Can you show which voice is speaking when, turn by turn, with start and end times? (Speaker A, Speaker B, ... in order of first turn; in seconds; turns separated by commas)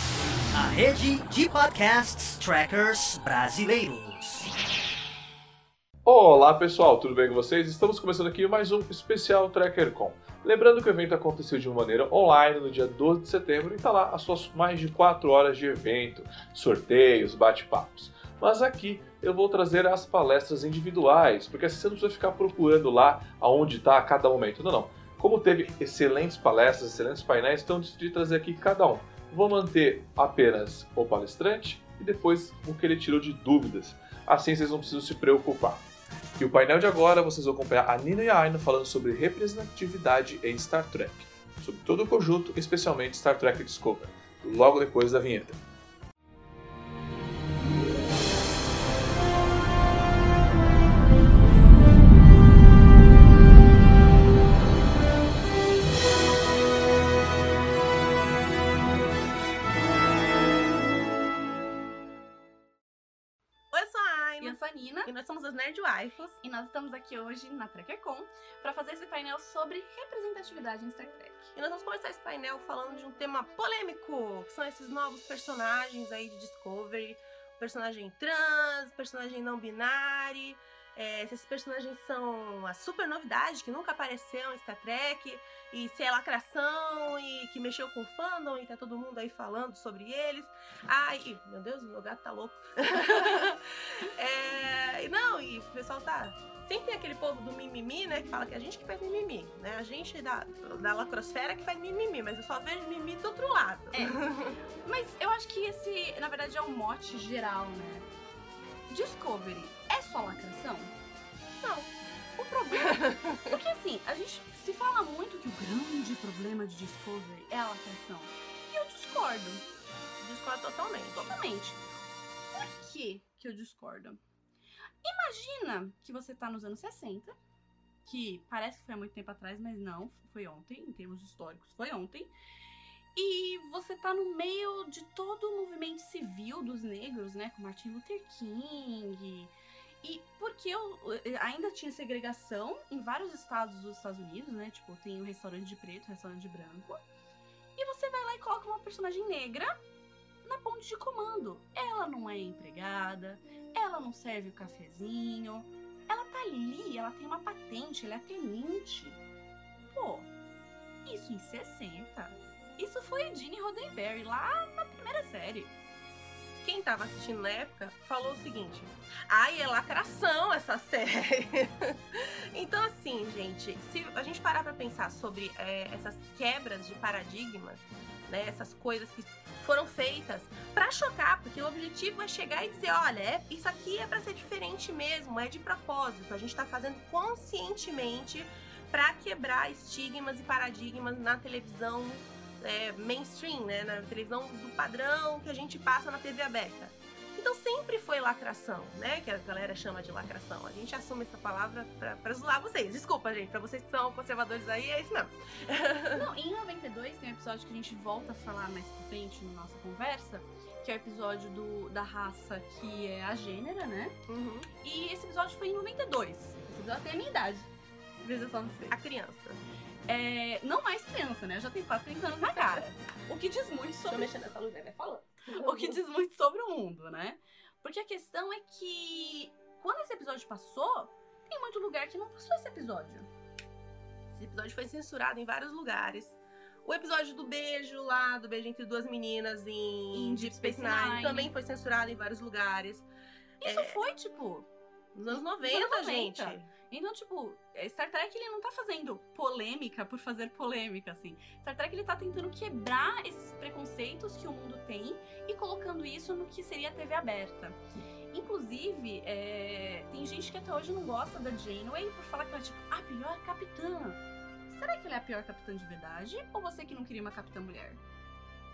Speaker A: 0.5-4.5, Speaker B: 6.0-35.8, Speaker B: 36.4-45.6, Speaker C: 63.7-66.4, Speaker D: 64.4-65.1, Speaker D: 66.4-71.5, Speaker C: 71.5-104.5, Speaker D: 103.9-104.2, Speaker D: 104.8-108.1, Speaker D: 108.9-110.9, Speaker D: 111.6-119.6, Speaker C: 112.7-113.6, Speaker C: 120.2-121.3, Speaker D: 121.1-121.8, Speaker D: 122.5-124.2, Speaker D: 125.0-127.3, Speaker D: 128.0-132.3, Speaker D: 133.1-147.0, Speaker D: 147.8-149.8, Speaker D: 150.4-159.2, Speaker D: 159.9-160.3, Speaker D: 161.0-165.7, Speaker C: 166.6-206.3, Speaker D: 206.1-214.2, Speaker C: 214.3-214.7, Speaker D: 214.8-217.7, Speaker D: 218.2-219.0, Speaker C: 218.9-219.6, Speaker D: 220.1-224.3, Speaker C: 224.1-226.0, Speaker D: 225.5-233.3, Speaker C: 234.3-243.1, Speaker D: 240.1-241.5, Speaker D: 243.6-244.7, Speaker C: 243.6-244.0, Speaker C: 245.1-246.7, Speaker D: 245.6-257.8, Speaker D: 258.3-268.0